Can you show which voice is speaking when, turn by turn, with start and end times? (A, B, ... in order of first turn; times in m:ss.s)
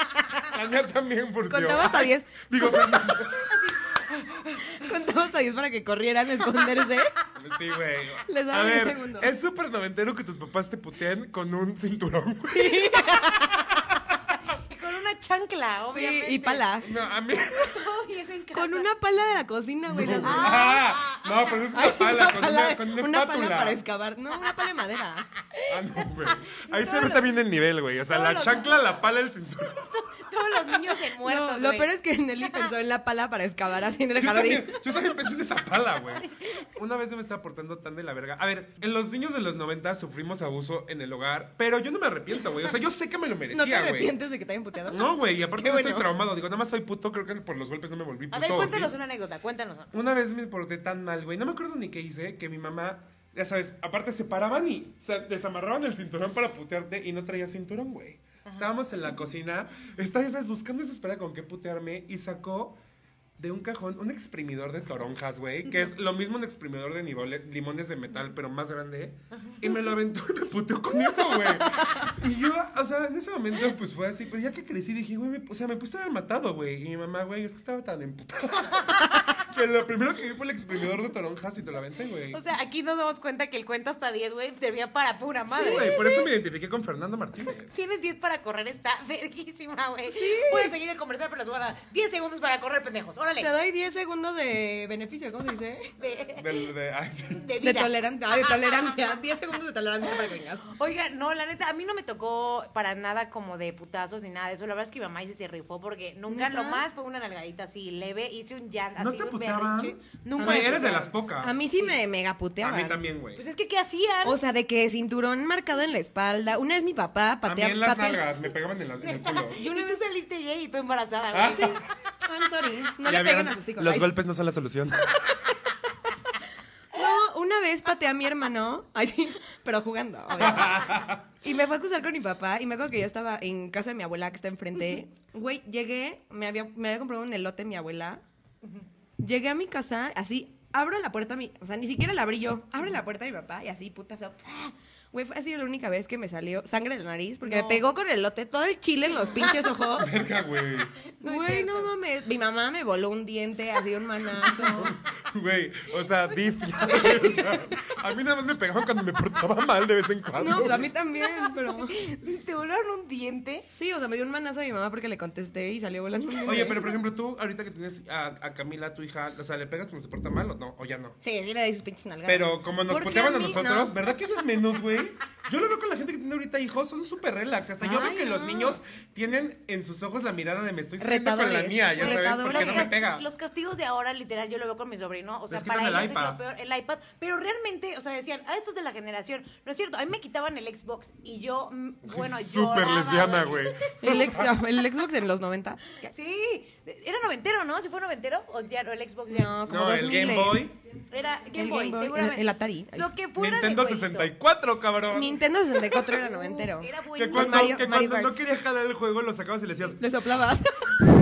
0:00.5-0:03.6 A
0:01.5-0:03.3 B
0:03.4-0:04.9 C
0:04.6-0:07.1 B
0:07.4-0:14.1 A
0:08.3-0:09.3 B
0:12.5-0:13.6 B
0:14.7-0:16.8 C
0:15.9-0:16.9 B
0:16.8-0:17.9 A
0:17.4-0:18.9 C
0:18.5-0:20.8 B
0:19.9-0:23.8 A
0:20.2-0:21.6 C
0:21.7-0:25.6 B
0:25.7-0:30.3 A
0:26.5-0:27.3 C
0:28.1-0:29.0 C
0:29.9-0:31.9 C
0:31.2-0:34.8 B
0:34.1-0:44.2 A
0:43.5-0:46.1 B
0:44.9-0:49.0 A
0:48.3-0:49.9 C
0:49.9-1:02.8 A
1:03.4-1:22.4 A
1:18.7-1:19.2 C
1:22.3-1:26.2 C
1:25.5-1:27.7 A
1:25.6-1:26.0 B
1:27.7-1:33.5 C
1:30.1-1:30.7 B
1:33.4-1:35.9 B
1:36.0-1:36.6 C
1:36.4-1:37.5 A
1:37.3-1:39.0 C
1:37.6-1:40.7 B
1:40.1-1:51.1 C
1:46.3-1:46.8 B
1:49.0-1:51.6 A
1:50.4-1:50.8 B
1:51.4-1:53.0 B
1:52.6-1:53.4 A
1:53.4-1:54.4 C
1:54.2-1:58.3 B
1:57.4-1:59.6 A
1:59.0-2:01.8 C
1:59.6-2:00.0 B
2:01.3-2:01.8 A
2:01.5-2:04.1 B
2:03.0-2:05.2 A
2:06.9-2:18.2 B
2:10.4-2:11.2 A
2:19.2-2:30.1 B
2:27.4-2:27.9 C
2:29.2-2:29.8 C
2:30.0-2:30.9 A
2:31.0-2:31.9 C
2:31.2-2:34.9 B
2:34.4-2:34.9 C
2:34.6-2:40.9 A
2:36.8-2:37.8 C
2:40.4-2:42.2 B
2:41.2-2:43.7 C
2:43.7-2:47.0 B
2:46.4-2:51.2 A
2:51.2-2:54.1 B
2:52.2-3:03.3 A
2:57.8-2:58.8 B
3:01.0-3:02.9 B
3:02.0-3:14.3 C
3:05.5-3:06.4 A
3:12.0-3:14.6 A
3:14.0-3:16.1 B
3:16.1-3:19.6 C
3:19.3-3:20.7 B
3:19.7-3:20.8 A
3:21.1-3:24.3 C
3:21.6-3:23.1 B
3:23.4-3:25.4 A
3:25.1-3:28.4 B
3:25.9-3:27.8 C
3:27.2-3:30.1 A
3:30.0-3:31.0 B